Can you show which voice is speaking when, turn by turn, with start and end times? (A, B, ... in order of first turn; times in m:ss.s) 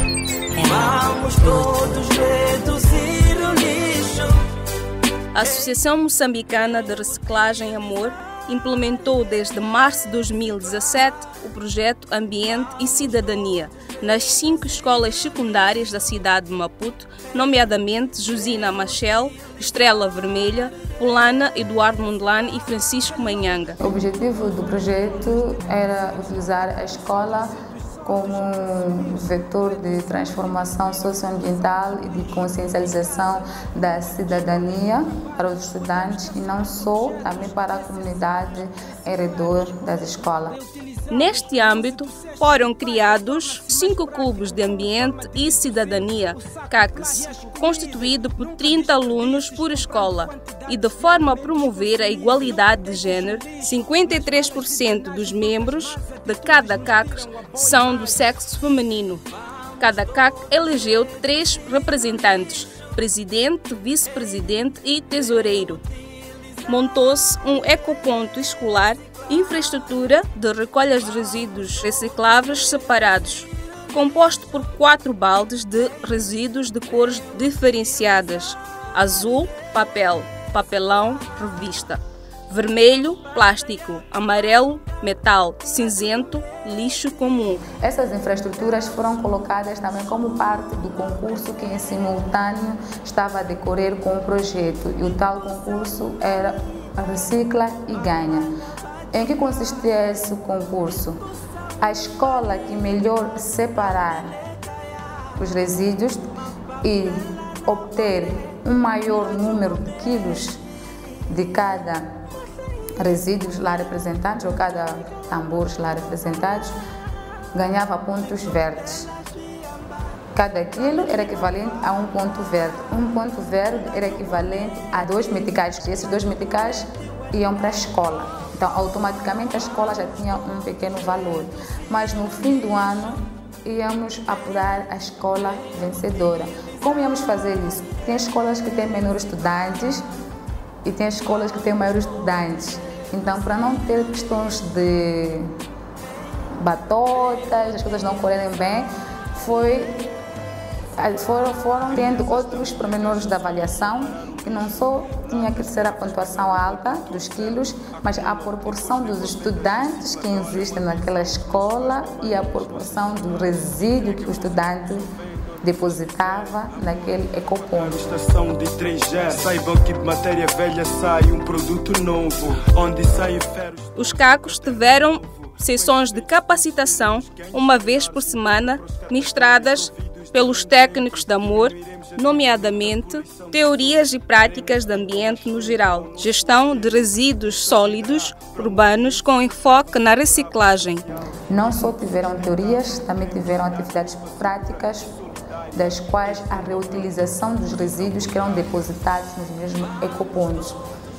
0:00.6-0:04.3 A
0:00.8-0:02.8 B
0:03.8-0:04.3 B
0:05.3-0:23.8 C
0:23.8-0:27.5 D
0:28.0-0:40.6 D
0:41.1-0:59.2 C
0:59.8-1:05.8 C
1:06.7-1:27.7 C
1:27.8-1:38.5 D
1:39.1-1:41.2 D
1:41.8-1:44.4 D
1:45.4-1:46.3 D
1:46.8-1:50.6 D
1:51.3-1:52.0 D
1:53.0-1:56.7 D
1:57.5-1:59.1 D
2:00.3-2:20.0 D
2:20.8-2:25.5 D
2:26.6-2:30.1 D
2:31.0-2:45.0 D
2:45.6-2:48.1 D
2:48.3-2:53.7 B
2:53.9-3:11.1 C
3:11.5-3:15.1 D
3:15.7-3:20.8 D